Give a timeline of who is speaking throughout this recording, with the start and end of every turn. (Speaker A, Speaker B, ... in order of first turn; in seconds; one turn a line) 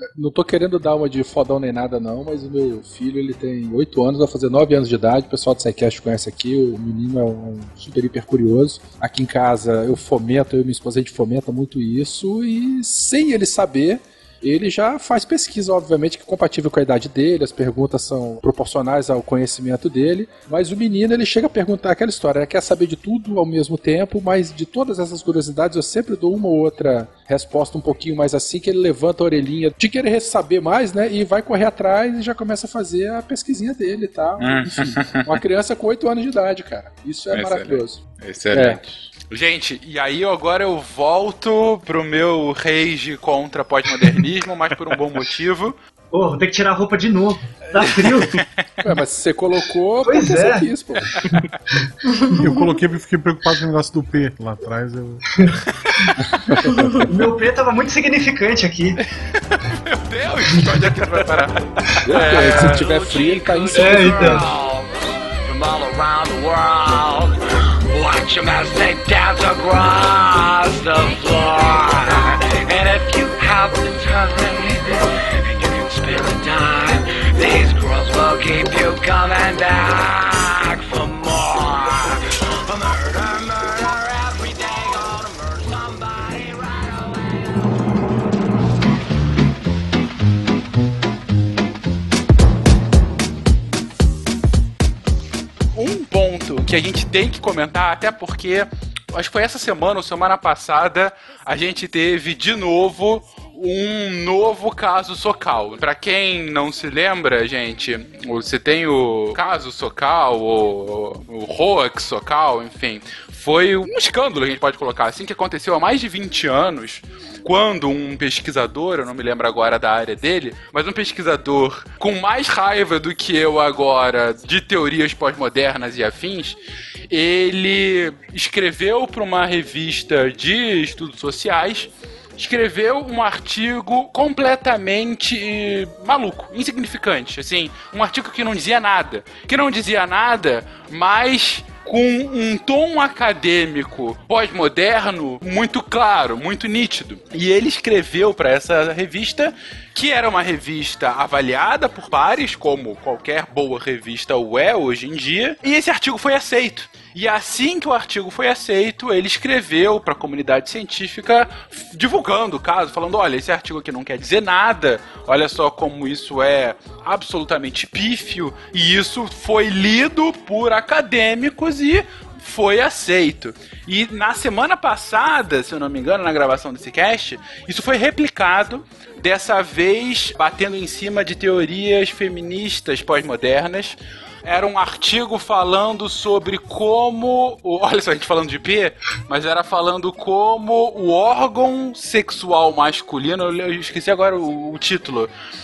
Speaker A: 0.1-38.8
Speaker B: 34.4-35.2
Speaker B: 37.3-45.8
Speaker C: 46.1-48.4
Speaker B: 47.9-48.6
Speaker A: 48.8-51.2
Speaker C: 50.0-52.6
Speaker D: 52.4-55.5
Speaker C: 55.4-56.1
Speaker C: 57.1-59.0
Speaker B: 59.4-64.5
Speaker A: 62.1-64.5
Speaker E: 62.1-67.3
Speaker C: 63.8-64.5
Speaker E: 67.9-87.7
Speaker B: 95.8-126.6
Speaker B: 127.1-195.3